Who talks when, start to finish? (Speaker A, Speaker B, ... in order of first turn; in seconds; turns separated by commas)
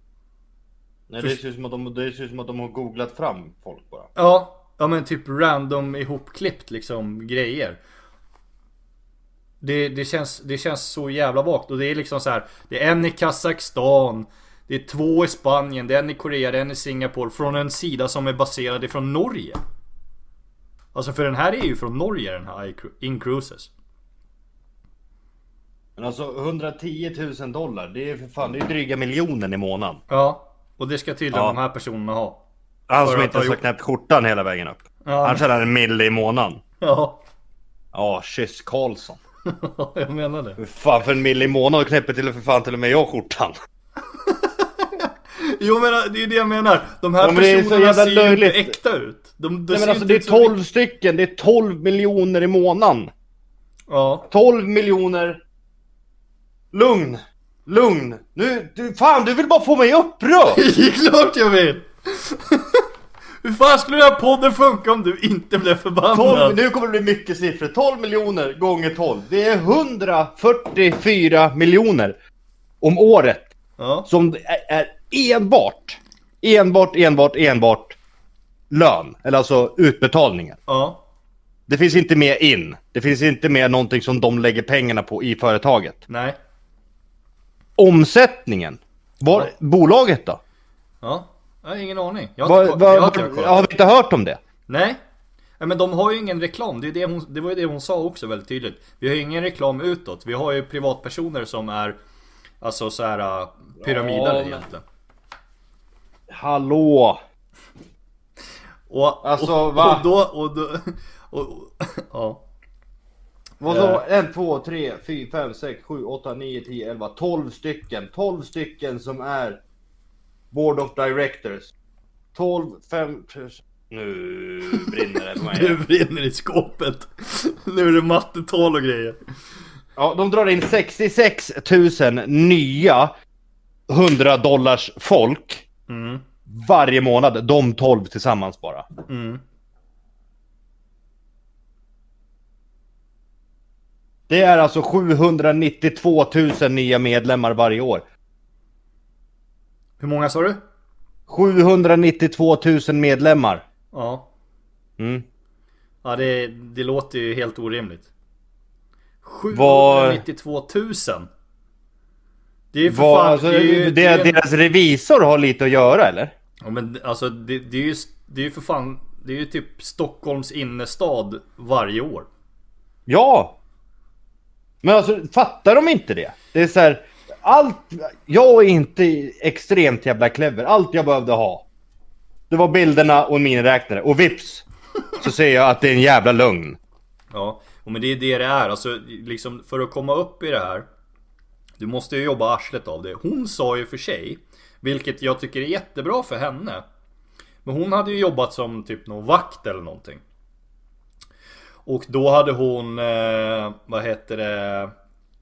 Speaker A: 1.1-4.1, Speaker B: 4.1-7.8, Speaker B: 9.6-19.6, Speaker B: 20.9-23.7, Speaker A: 26.0-30.0, Speaker B: 30.1-32.4, Speaker A: 31.3-31.6, Speaker A: 32.9-36.6, Speaker B: 33.0-33.6, Speaker B: 35.0-35.4, Speaker B: 36.8-37.2, Speaker A: 37.9-39.2, Speaker B: 39.5-40.6, Speaker A: 40.6-43.5, Speaker B: 44.3-50.6, Speaker A: 47.2-48.7, Speaker A: 49.7-53.1, Speaker B: 53.9-54.3, Speaker A: 54.3-55.4, Speaker A: 56.7-60.6, Speaker B: 60.5-62.8, Speaker B: 63.4-66.6, Speaker A: 66.1-72.2, Speaker A: 72.8-73.5, Speaker B: 73.8-74.1, Speaker A: 74.0-78.0, Speaker A: 78.7-80.6, Speaker B: 80.7-81.0, Speaker A: 81.7-86.0, Speaker B: 86.1-86.4, Speaker A: 87.8-90.4, Speaker B: 91.0-93.7, Speaker A: 92.4-94.4, Speaker B: 94.7-95.0, Speaker B: 95.6-102.0, Speaker B: 102.6-104.8, Speaker A: 103.8-104.7, Speaker A: 106.3-107.2, Speaker B: 108.9-112.4, Speaker A: 109.2-110.1, Speaker A: 113.6-119.6, Speaker B: 113.7-114.0, Speaker A: 120.5-121.7, Speaker A: 122.3-125.8, Speaker B: 124.7-129.2, Speaker A: 129.9-133.1, Speaker A: 133.9-135.6, Speaker B: 135.9-136.2, Speaker A: 136.5-138.9, Speaker B: 139.1-139.4, Speaker A: 144.3-148.1, Speaker B: 150.0-150.6, Speaker A: 151.3-153.6, Speaker B: 153.9-154.3, Speaker A: 155.0-155.2, Speaker B: 156.0-158.1, Speaker B: 159.2-161.3, Speaker A: 159.5-160.2, Speaker B: 162.7-164.4, Speaker A: 162.8-166.3, Speaker B: 166.6-172.3, Speaker A: 173.1-173.6, Speaker A: 174.8-181.7, Speaker A: 182.5-184.7, Speaker A: 185.2-186.8, Speaker B: 187.3-190.8, Speaker B: 191.8-196.8, Speaker B: 197.6-200.2, Speaker B: 201.8-204.9